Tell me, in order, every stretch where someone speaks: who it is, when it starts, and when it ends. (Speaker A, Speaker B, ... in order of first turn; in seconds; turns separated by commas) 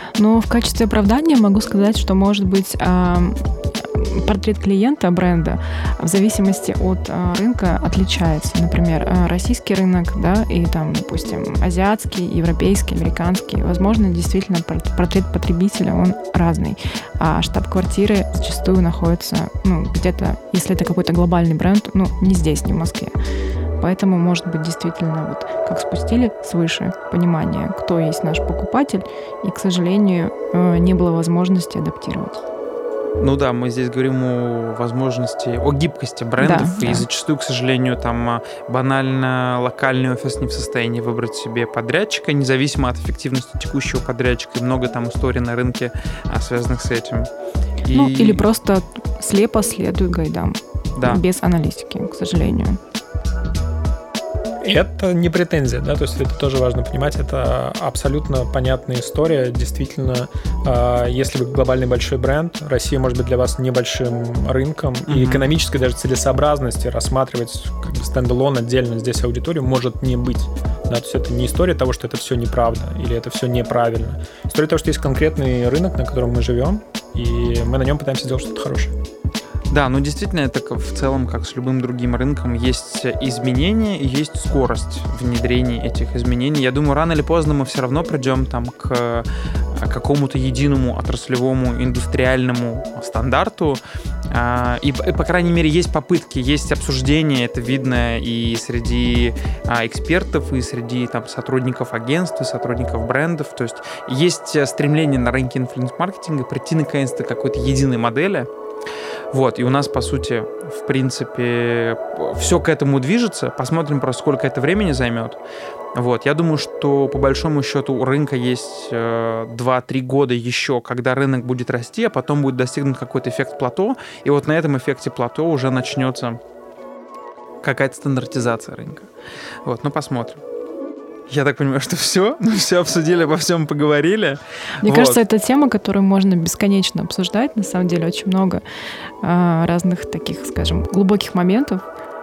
Speaker A: 0.2-23.1, Speaker A: 23.8-32.4, Speaker B: 33.2-47.3, Speaker A: 36.4-37.1, Speaker B: 47.8-48.5, Speaker A: 47.9-52.8, Speaker C: 54.6-79.0, Speaker B: 65.1-65.5, Speaker B: 79.7-108.5, Speaker B: 109.3-115.4, Speaker B: 116.0-126.4, Speaker B: 127.6-129.1, Speaker B: 129.7-130.4, Speaker B: 131.3-135.2, Speaker A: 134.8-138.6, Speaker A: 139.2-141.8